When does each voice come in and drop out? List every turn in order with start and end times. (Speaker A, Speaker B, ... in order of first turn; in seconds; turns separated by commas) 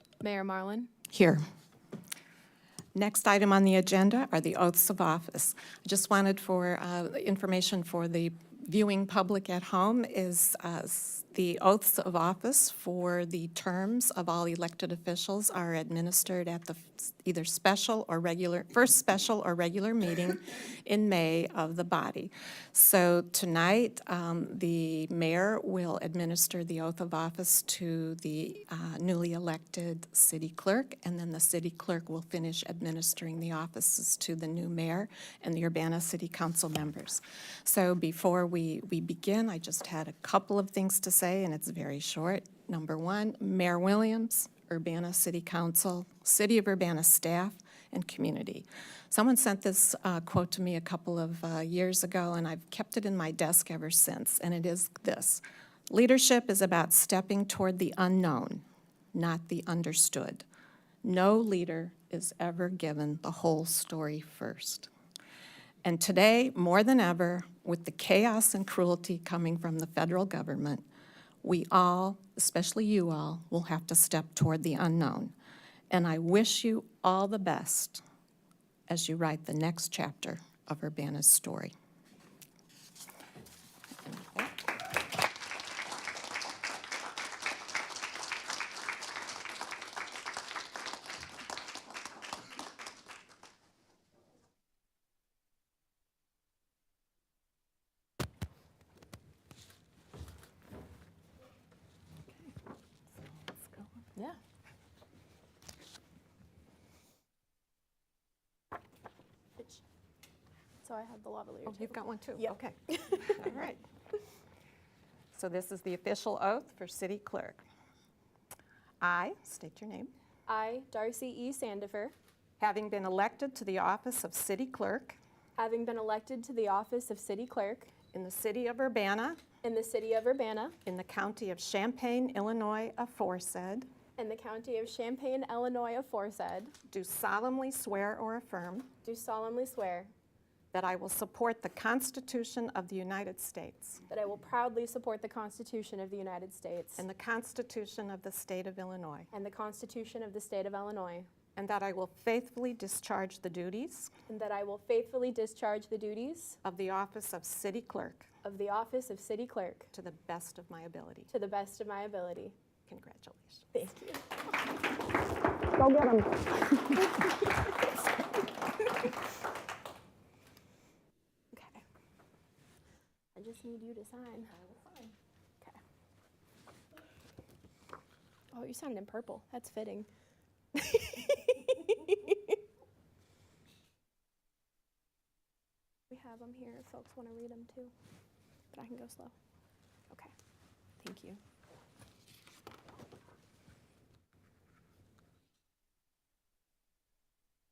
Speaker A: 0.2-0.9, Speaker B: 1.1-1.4, Speaker B: 2.9-60.4, Speaker B: 61.0-64.9, Speaker B: 65.8-70.8, Speaker B: 71.4-75.3, Speaker B: 75.9-78.0, Speaker B: 78.9-81.7, Speaker B: 103.3-103.9, Speaker A: 110.8-113.5, Speaker B: 111.7-113.8, Speaker B: 115.3-117.6, Speaker B: 119.0-120.1, Speaker A: 120.5-122.1, Speaker B: 122.6-125.2, Speaker A: 125.6-127.9, Speaker B: 128.1-129.4, Speaker A: 129.6-130.7, Speaker B: 130.8-133.9, Speaker A: 134.2-136.7, Speaker B: 136.9-138.9, Speaker A: 139.0-140.1, Speaker B: 140.7-144.0, Speaker A: 144.1-147.0, Speaker B: 147.0-149.3, Speaker A: 149.3-151.3, Speaker B: 151.6-154.1, Speaker A: 154.3-156.6, Speaker B: 156.6-158.3, Speaker A: 158.4-159.9, Speaker B: 159.9-161.3, Speaker A: 161.3-162.6, Speaker B: 162.9-163.7, Speaker A: 163.7-164.2, Speaker B: 165.8-166.4, Speaker A: 171.5-171.8, Speaker A: 173.3-174.5, Speaker B: 174.6-175.1, Speaker A: 178.5-180.1, Speaker A: 180.7-182.4, Speaker A: 186.1-187.9, Speaker A: 188.7-189.3, Speaker A: 191.0-191.4